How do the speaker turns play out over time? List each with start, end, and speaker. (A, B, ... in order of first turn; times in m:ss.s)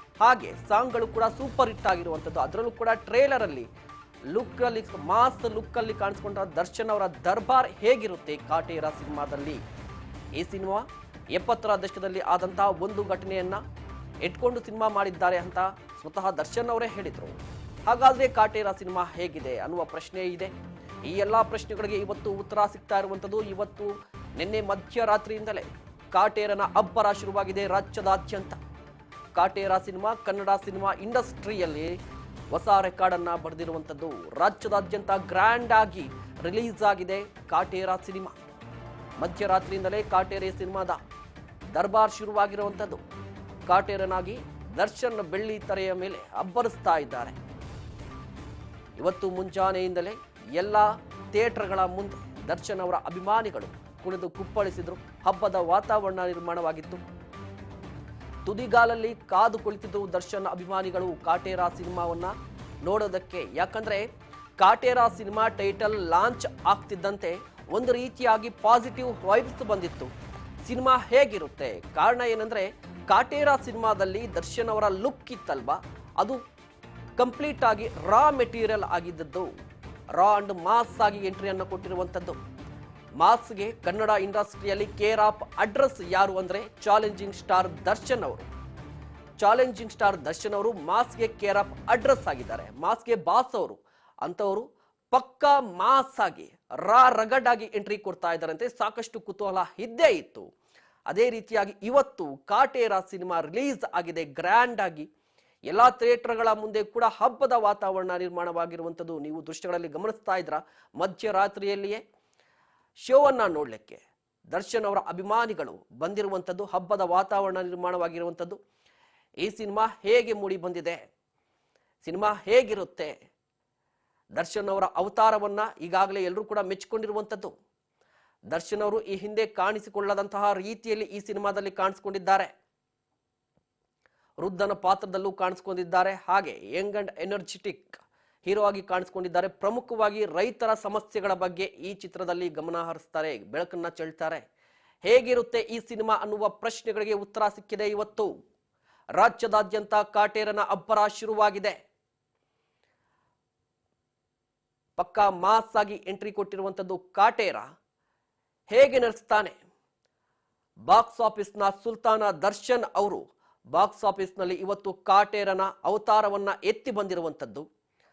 0:00.2-0:03.7 A
0:04.3-0:09.6 A
0:10.4-0:13.6 A
0:14.2-0:20.5 A
0:21.1-0:28.6 A
0:29.4-0:32.0 A
0:32.5-0:38.4 A
0:39.2-0:41.0 A
0:41.7-0:43.0 A
0:43.7-0:47.4 A
0:49.0-0:57.0 A
0:58.5-1:02.3 A
1:02.8-1:04.1 A
1:04.6-1:10.1 A
1:10.6-1:16.4 A
1:17.2-1:19.5 A
1:20.2-1:22.4 A
1:23.2-1:28.5 A
1:29.4-1:40.5 A
1:41.1-1:45.1 A
1:45.7-1:52.0 A
1:53.0-1:54.0 A
1:54.5-1:58.6 A
1:59.4-2:01.0 A
2:02.0-2:03.1 A
2:04.4-2:07.5 A
2:08.5-2:12.5 A
2:14.4-2:24.4 A
2:25.1-2:28.3 A
2:29.2-2:31.8 A
2:35.0-2:37.7 A
2:38.7-2:39.5 A
2:40.9-2:43.2 A
2:43.7-2:47.6 A